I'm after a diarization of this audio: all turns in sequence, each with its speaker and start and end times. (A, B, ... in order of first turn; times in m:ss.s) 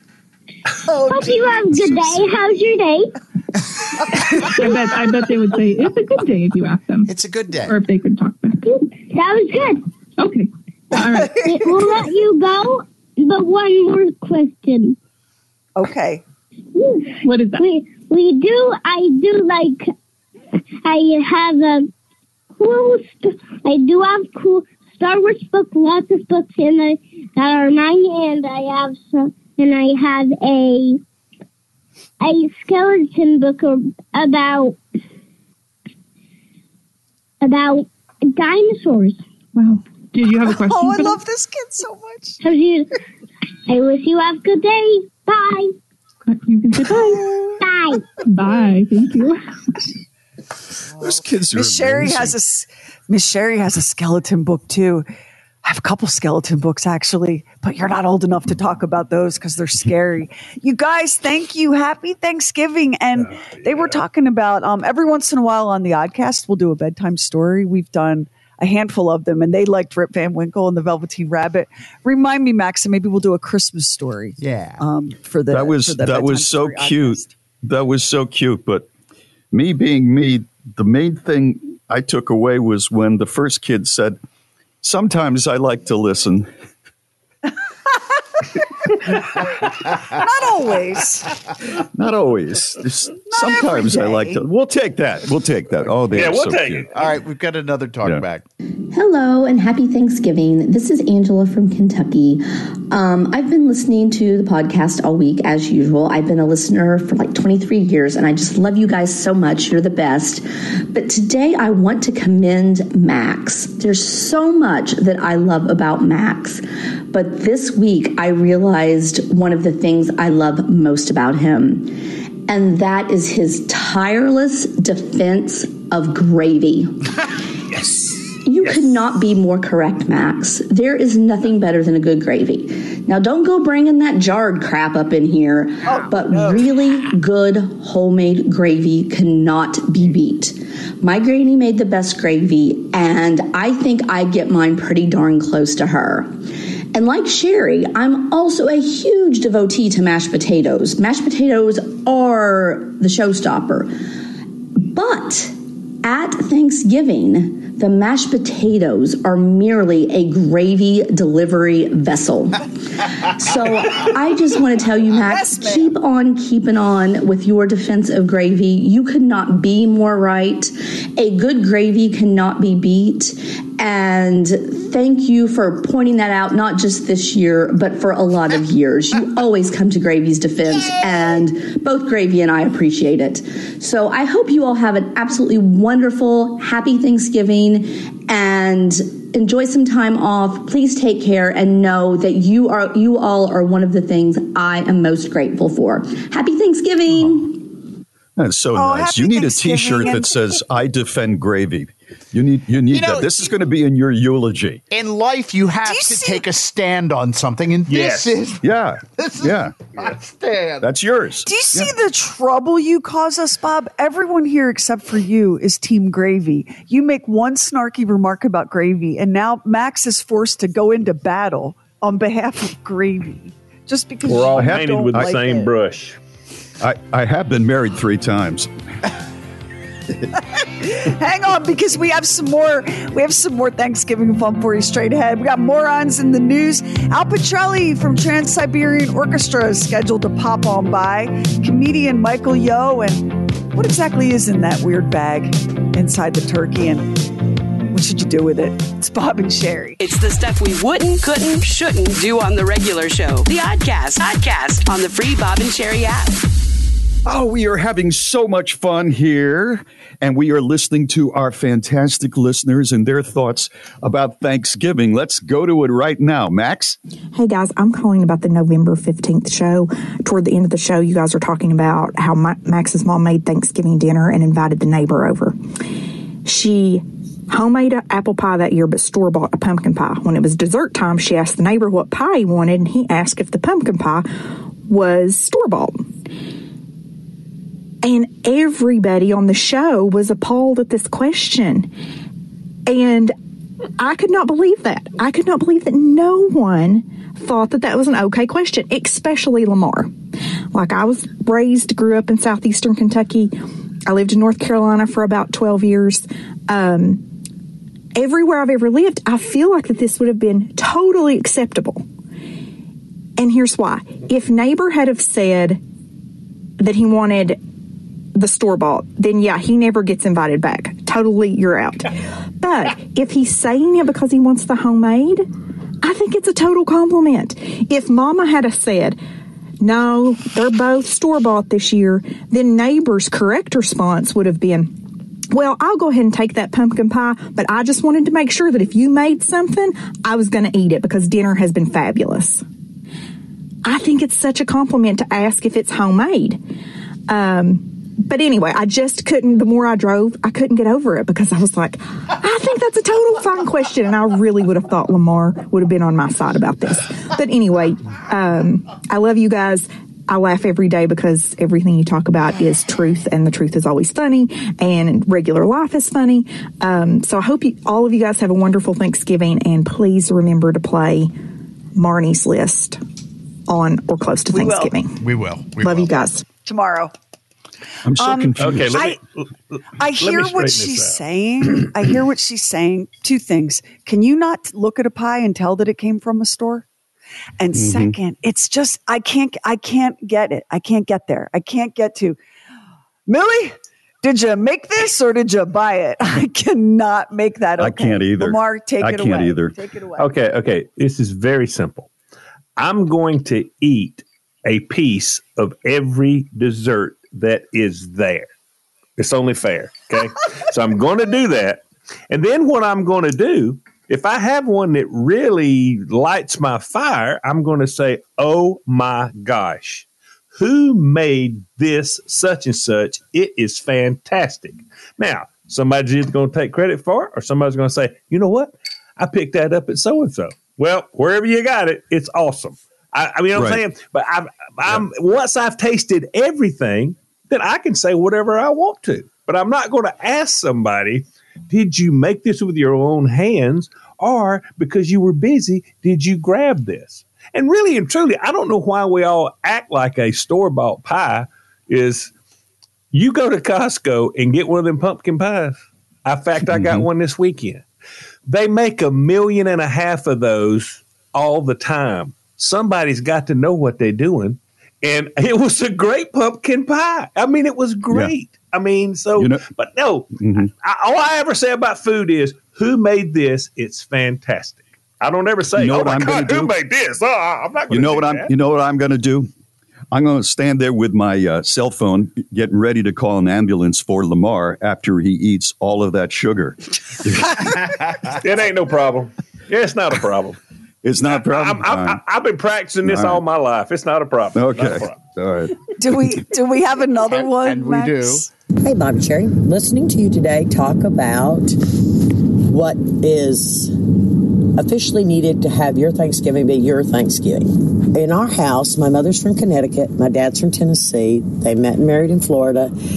0:00.9-0:03.1 A
0:04.4-0:07.1 B
0:07.1-0:07.8 C
0:07.6-0:08.6 B
0:08.7-0:09.9 A
0:10.2-0:11.4 B
0:11.4-0:15.0 A
0:15.8-0:16.2 D
0:16.8-0:19.9 A
0:17.2-0:17.6 B
0:20.8-0:21.9 A
0:22.6-0:31.0 A
0:32.2-0:34.8 A
0:37.4-0:39.2 A
0:39.6-0:41.2 B
0:40.7-0:42.4 D
0:42.4-0:42.9 A
0:43.7-0:45.7 A
0:46.3-0:47.2 B
0:47.6-0:48.1 A
0:48.3-0:49.4 B
0:51.0-0:52.4 E
0:51.5-0:55.1 D
0:55.6-1:17.3 D
1:03.3-1:04.0 F
1:14.4-1:14.8 C
1:15.5-1:18.9 E
1:19.5-1:24.2 E
1:24.8-1:26.5 E
1:30.1-1:31.3 D
1:31.9-1:36.9 E
1:33.3-1:34.4 D
1:36.1-1:36.9 F
1:36.9-1:38.4 C
1:38.9-2:07.0 G
2:07.7-2:08.1 F
2:08.5-2:26.4 G
2:26.9-2:34.0 G
2:34.8-2:42.7 G
2:43.2-3:17.7 G
3:18.4-3:24.8 E
3:18.8-3:20.4 D
3:22.9-3:23.5 C
3:24.9-3:28.6 C
3:25.8-3:26.5 D
3:27.9-3:28.4 F
3:28.6-3:29.8 E
3:29.2-3:30.9 C
3:30.8-3:31.9 E
3:31.4-3:45.7 D
3:44.3-3:46.2 F
3:44.3-3:45.4 E
3:46.8-3:48.7 E
3:50.8-4:07.2 D
4:07.9-4:10.0 D
4:10.0-4:16.4 H
4:17.3-4:27.0 E
4:27.3-4:35.6 I
4:36.4-4:44.3 I
4:44.9-4:46.1 I
4:48.0-4:51.9 I
4:52.9-4:53.3 I
4:54.0-5:00.1 I
5:00.7-5:07.3 I
5:08.2-5:12.0 I
5:13.4-5:15.8 I
5:16.8-5:17.6 I
5:18.4-5:25.5 I
5:26.0-5:29.2 I
5:29.8-5:35.0 I
5:35.5-5:42.6 I
5:43.8-5:46.6 I
5:47.3-6:11.3 I
6:12.0-6:13.0 I
6:13.7-6:15.2 I
6:14.5-6:14.9 D
6:15.2-6:16.1 C
6:15.8-6:16.5 I
6:16.7-6:17.1 D
6:18.0-6:19.1 E
6:18.2-6:19.2 D
6:18.6-6:21.2 F
6:20.0-6:26.9 D
6:27.6-6:32.4 D
6:27.8-6:28.2 E
6:33.3-6:40.3 D
6:37.8-6:39.7 E
6:40.2-6:42.1 F
6:42.8-6:48.5 F
6:49.2-7:32.3 F
7:13.6-7:13.8 E
7:33.1-7:37.8 F
7:36.6-7:37.1 E
7:38.5-7:58.5 F
7:49.4-7:49.6 E
7:50.3-7:50.7 E
7:55.7-7:56.8 E
7:57.9-7:59.5 E
8:00.1-8:07.8 E
8:08.3-8:10.6 F
8:11.0-8:12.2 E
8:11.3-8:15.2 F
8:13.0-8:13.4 E
8:14.6-8:16.2 E
8:16.0-8:18.5 D
8:17.3-8:18.5 C
8:18.8-8:32.9 J